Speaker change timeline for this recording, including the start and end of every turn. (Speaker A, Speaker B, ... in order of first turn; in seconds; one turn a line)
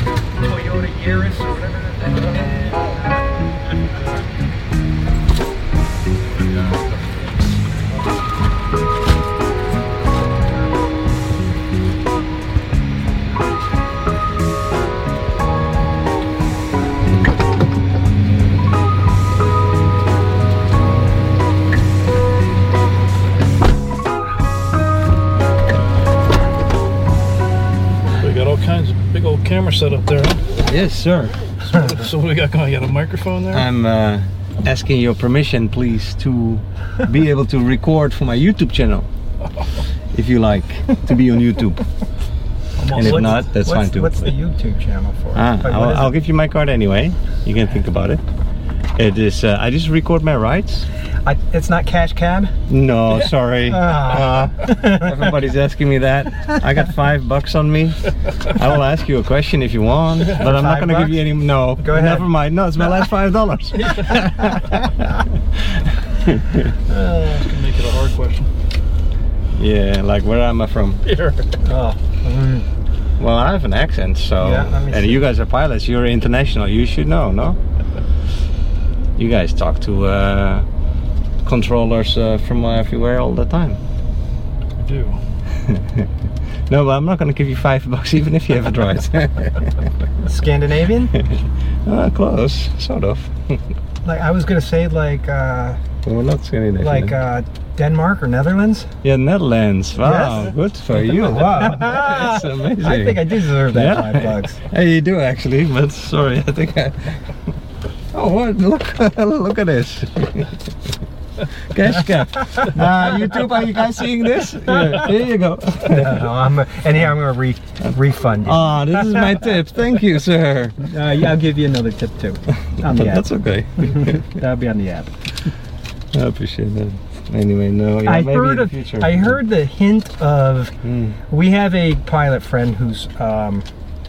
Speaker A: 0.4-4.0
Speaker B: 28.2-30.5
Speaker C: 30.6-31.4
Speaker B: 31.6-33.7
Speaker C: 33.5-39.1
Speaker C: 40.1-41.9
Speaker B: 42.8-43.4
Speaker C: 42.9-44.3
Speaker A: 42.9-46.1
Speaker C: 45.4-48.2
Speaker C: 49.0-50.9
Speaker A: 51.2-52.5
Speaker C: 52.7-66.7
Speaker A: 53.7-55.3
Speaker A: 60.4-61.2
Speaker A: 61.8-62.3
Speaker B: 63.8-64.3
Speaker A: 66.9-67.5
Speaker B: 67.2-68.5
Speaker C: 69.5-71.0
Speaker B: 71.0-71.5
Speaker A: 71.6-72.7
Speaker C: 73.2-77.6
Speaker A: 74.4-75.2
Speaker C: 79.2-80.7
Speaker C: 81.4-83.8
Speaker B: 84.8-85.2
Speaker C: 85.7-86.0
Speaker C: 86.7-89.9
Speaker A: 90.2-91.2
Speaker C: 91.8-93.6
Speaker A: 94.0-95.8
Speaker C: 96.0-97.1
Speaker A: 96.8-98.9
Speaker C: 99.0-107.3
Speaker A: 100.0-100.5
Speaker A: 101.1-104.6
Speaker C: 108.1-110.6
Speaker C: 111.7-116.3
Speaker A: 115.8-119.3
Speaker C: 118.4-120.8
Speaker A: 120.8-125.1
Speaker C: 122.8-124.2
Speaker C: 126.1-129.4
Speaker A: 128.0-130.7
Speaker C: 130.8-131.2
Speaker A: 131.3-133.7